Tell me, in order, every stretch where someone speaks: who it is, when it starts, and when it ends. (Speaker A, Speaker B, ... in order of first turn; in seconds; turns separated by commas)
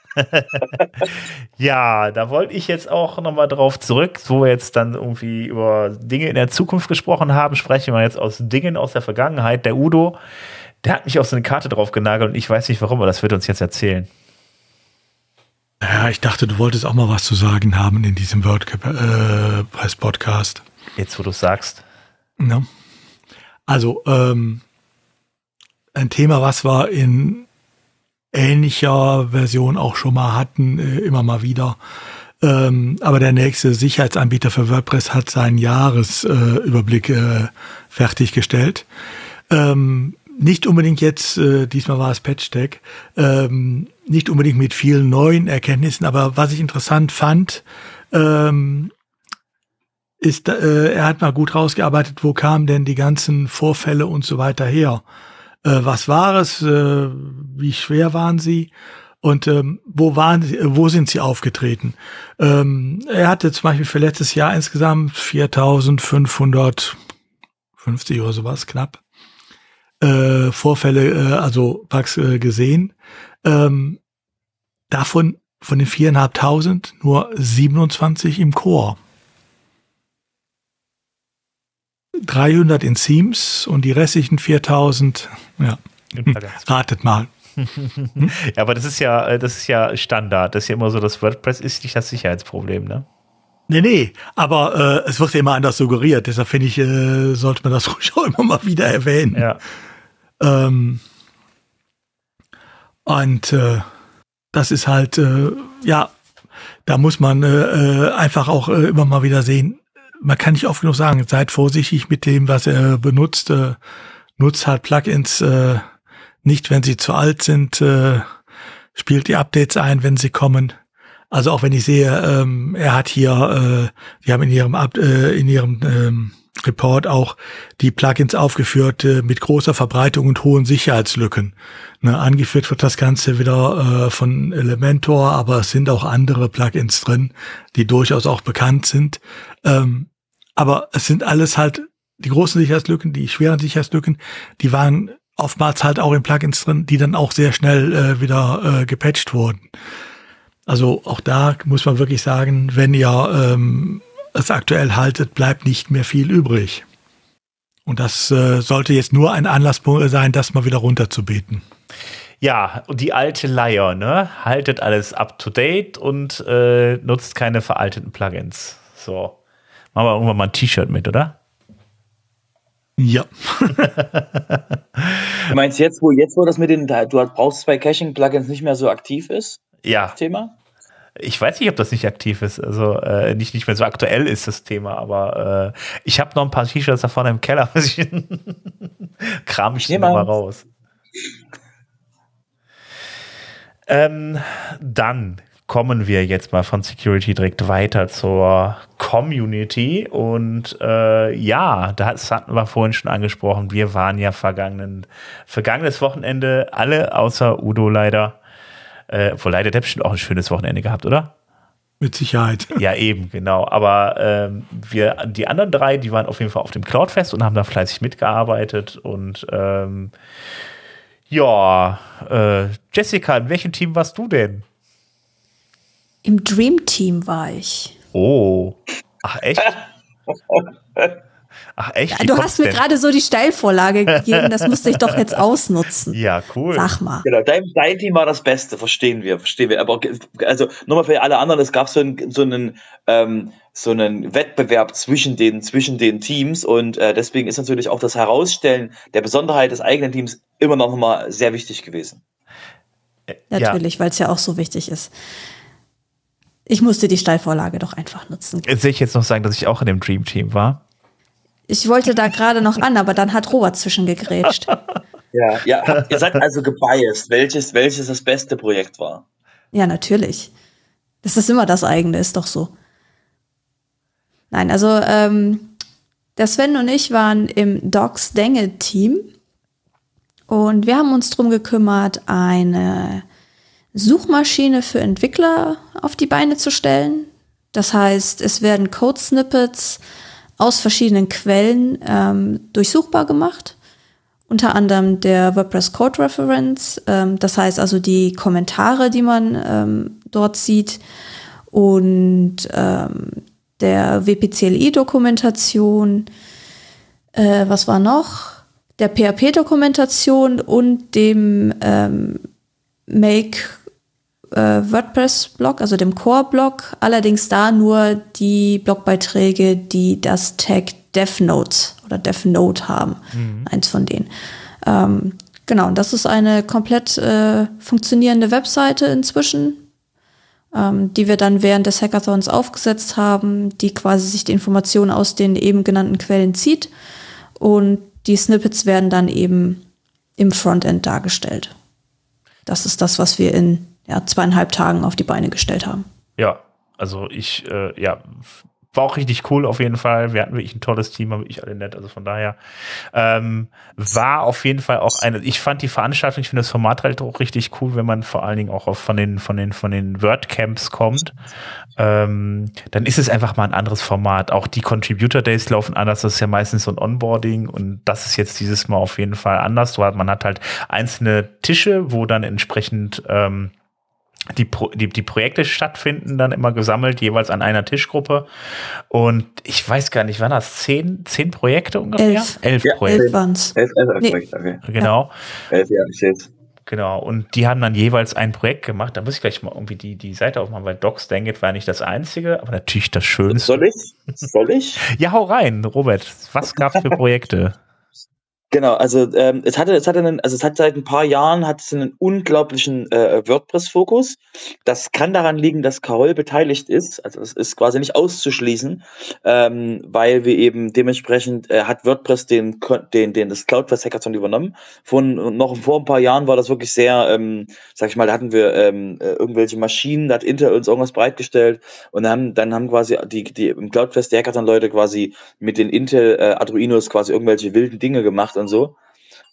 Speaker A: 0.2-10.2, Speaker B: 0.8-1.1, Speaker A: 10.8-14.1, Speaker C: 15.8-20.6, Speaker A: 21.0-21.8, Speaker C: 22.4-22.7, Speaker C: 23.7-24.6, Speaker C: 25.9-27.4, Speaker C: 28.3-31.8, Speaker C: 32.4-38.9, Speaker C: 39.5-48.9, Speaker C: 50.2-55.0, Speaker C: 55.6-58.7, Speaker C: 59.2-67.0, Speaker C: 67.8-69.0, Speaker C: 70.0-72.9, Speaker C: 73.4-74.0, Speaker C: 74.9-79.0, Speaker C: 82.2-87.3, Speaker A: 86.1-86.6, Speaker A: 87.6-93.0, Speaker C: 93.7-99.5, Speaker A: 99.3-99.6, Speaker C: 100.4-101.0, Speaker C: 103.0-103.9, Speaker C: 104.5-106.1, Speaker C: 106.8-113.8, Speaker C: 114.4-115.8, Speaker C: 116.4-118.2, Speaker C: 118.9-120.7, Speaker C: 121.3-149.7, Speaker C: 150.7-156.8, Speaker C: 157.8-161.6, Speaker A: 162.4-169.4, Speaker A: 169.9-171.4, Speaker C: 173.0-173.9, Speaker A: 173.8-175.5, Speaker B: 175.5-180.5, Speaker A: 179.8-180.2, Speaker A: 181.2-190.6, Speaker B: 189.9-190.3, Speaker A: 193.9-208.4, Speaker A: 209.1-211.3, Speaker C: 212.0-212.8, Speaker A: 212.8-220.1, Speaker A: 221.3-224.6, Speaker D: 226.2-227.9, Speaker A: 228.1-229.8, Speaker B: 230.5-231.1, Speaker A: 231.8-232.8, Speaker D: 232.1-236.2, Speaker A: 234.7-235.2, Speaker A: 236.1-236.9, Speaker D: 236.7-237.2, Speaker B: 237.2-252.2, Speaker A: 253.5-253.8, Speaker D: 253.5-255.1, Speaker D: 256.7-258.7, Speaker A: 258.6-260.8, Speaker D: 261.7-264.8, Speaker B: 265.3-269.2, Speaker D: 269.7-270.5, Speaker D: 271.2-272.7, Speaker D: 274.5-275.7, Speaker D: 276.4-279.3, Speaker D: 280.5-283.2, Speaker D: 283.9-290.0, Speaker D: 290.6-293.8, Speaker D: 294.5-301.0, Speaker D: 301.7-306.3, Speaker D: 307.3-312.4, Speaker D: 313.1-313.8, Speaker D: 314.5-324.3, Speaker A: 323.3-323.7, Speaker D: 324.8-329.9, Speaker D: 330.7-336.9, Speaker D: 337.6-339.8, Speaker D: 340.4-341.7, Speaker D: 342.6-346.0, Speaker A: 346.4-352.6, Speaker A: 353.1-361.4, Speaker A: 362.0-373.7, Speaker A: 374.5-378.5, Speaker A: 379.1-383.3, Speaker D: 382.2-382.6, Speaker B: 382.8-384.8, Speaker D: 383.1-384.4, Speaker A: 384.8-385.3, Speaker B: 385.7-386.5, Speaker A: 386.9-393.8, Speaker B: 393.5-395.1, Speaker A: 395.1-397.8, Speaker B: 398.7-428.9